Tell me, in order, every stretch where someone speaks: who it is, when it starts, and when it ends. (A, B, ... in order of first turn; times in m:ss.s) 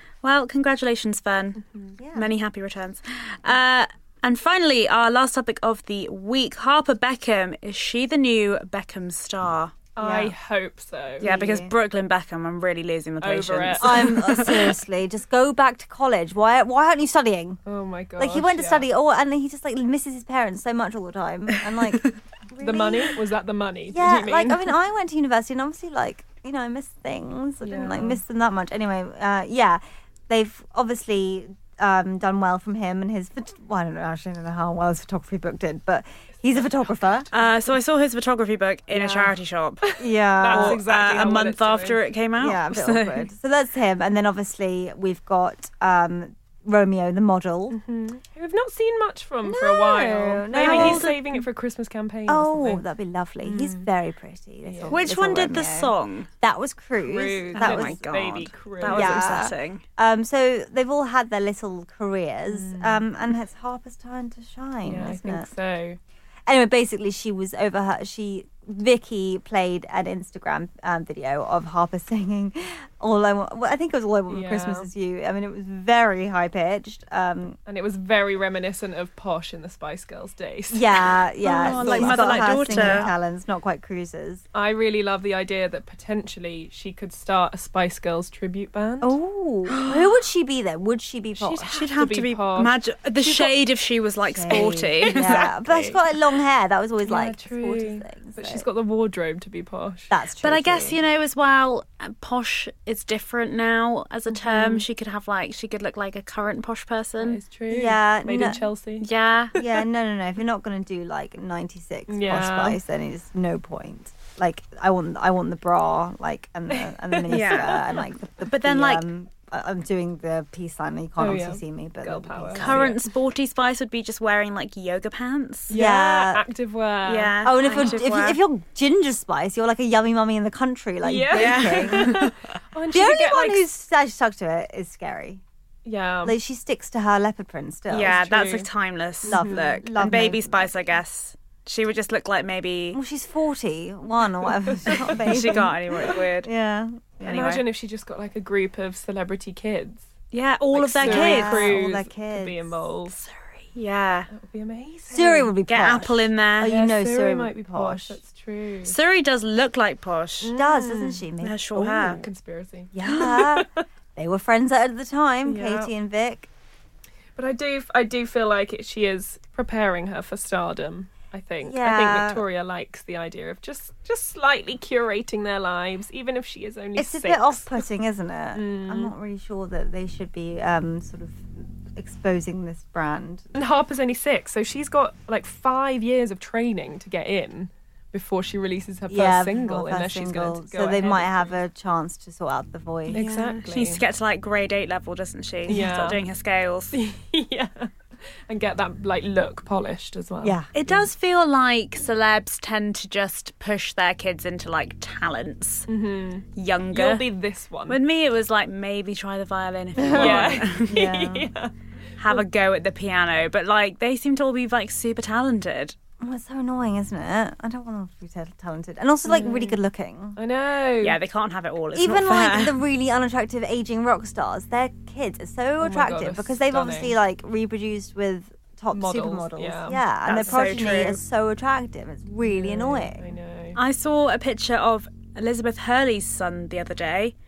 0:00.2-0:01.6 A
0:02.0-0:02.3 B
0:02.1-0:09.8 A
0:10.0-0:11.3 C
0:10.0-0:10.3 B
0:11.2-0:14.7 A
0:11.2-0:11.7 B
0:13.2-0:14.5 C
0:13.8-0:17.6 B
0:17.6-0:18.9 C
0:18.2-0:23.1 B
0:22.6-0:24.7 C
0:23.9-0:37.3 B
0:27.6-0:28.2 C
0:37.3-0:39.8 A
0:39.0-0:39.3 B
0:39.8-0:42.0 C
0:40.0-0:40.8 B
0:40.5-0:43.2 A
0:42.4-0:47.8 B
0:47.7-0:52.8 C
0:49.4-0:51.4 B
0:50.5-0:51.2 A
0:52.3-0:58.0 B
0:53.4-0:53.9 C
0:54.6-0:55.0 C
0:54.9-0:56.3 A
0:57.0-0:59.3 C
0:57.5-0:59.8 A
0:58.8-1:05.5 B
1:02.5-1:03.0 C
1:04.8-1:06.0 C
1:06.4-1:17.6 B
1:14.3-1:14.9 C
1:17.7-1:23.1 C
1:20.7-1:24.4 B
1:21.4-1:23.1 A
1:24.5-1:29.1 C
1:29.0-1:31.8 B
1:29.7-1:30.0 A
1:31.4-1:33.5 C
1:31.7-1:36.0 A
1:34.3-1:38.6 B
1:34.5-1:35.5 C
1:37.0-1:40.1 C
1:40.1-1:41.0 B
1:40.4-1:47.4 A
1:47.2-1:49.8 C
1:47.7-1:48.7 B
1:49.0-1:49.5 A
1:49.5-2:02.8 B
1:52.1-1:52.8 C
1:56.8-1:58.0 C
1:57.3-1:57.8 A
1:58.4-1:59.1 A
2:01.2-2:03.1 C
2:02.6-2:05.7 A
2:05.7-2:08.0 C
2:05.7-2:06.4 B
2:07.0-2:08.4 A
2:07.4-2:12.2 B
2:11.0-2:13.6 C
2:11.3-2:12.4 A
2:12.9-2:15.4 B
2:15.8-2:16.4 C
2:16.2-2:18.2 B
2:17.9-2:23.0 A
2:18.0-2:18.7 C
2:19.2-2:19.6 C
2:19.2-2:20.8 B
2:22.9-2:27.6 B
2:24.4-2:25.3 C
2:24.9-2:26.5 A
2:27.2-2:30.0 C
2:30.3-2:31.7 A
2:30.7-2:33.2 C
2:31.0-2:32.7 B
2:33.3-2:34.3 A
2:34.3-2:35.5 C
2:35.1-2:38.2 B
2:35.6-2:36.7 A
2:36.6-2:39.0 C
2:38.8-2:40.5 A
2:40.4-2:41.3 C
2:40.5-2:42.2 B
2:41.4-2:42.2 A
2:41.8-2:43.8 C
2:42.9-2:46.5 B
2:45.4-2:45.9 C
2:47.4-2:57.7 C
2:51.6-2:52.4 B
2:57.0-3:03.4 B
2:58.5-2:59.1 C
3:03.5-3:11.6 C
3:09.1-3:13.2 B
3:13.1-3:14.0 C
3:13.1-3:17.0 A
3:15.7-3:16.2 C
3:16.9-3:17.9 C
3:18.5-3:20.9 C
3:20.4-3:20.7 B
3:20.7-3:25.9 A
3:25.9-3:28.0 C
3:26.5-3:27.3 A
3:27.9-3:31.0 A
3:30.0-3:31.5 B
3:30.1-3:31.7 C
3:32.2-3:36.0 A
3:36.2-3:40.4 B
3:39.2-3:39.8 C
3:40.4-3:41.2 C
3:41.0-3:42.8 A
3:41.9-3:53.2 B
3:45.8-3:47.1 C
3:48.9-3:50.6 C
3:50.2-3:51.2 A
3:52.4-3:53.8 C
3:53.7-3:57.3 A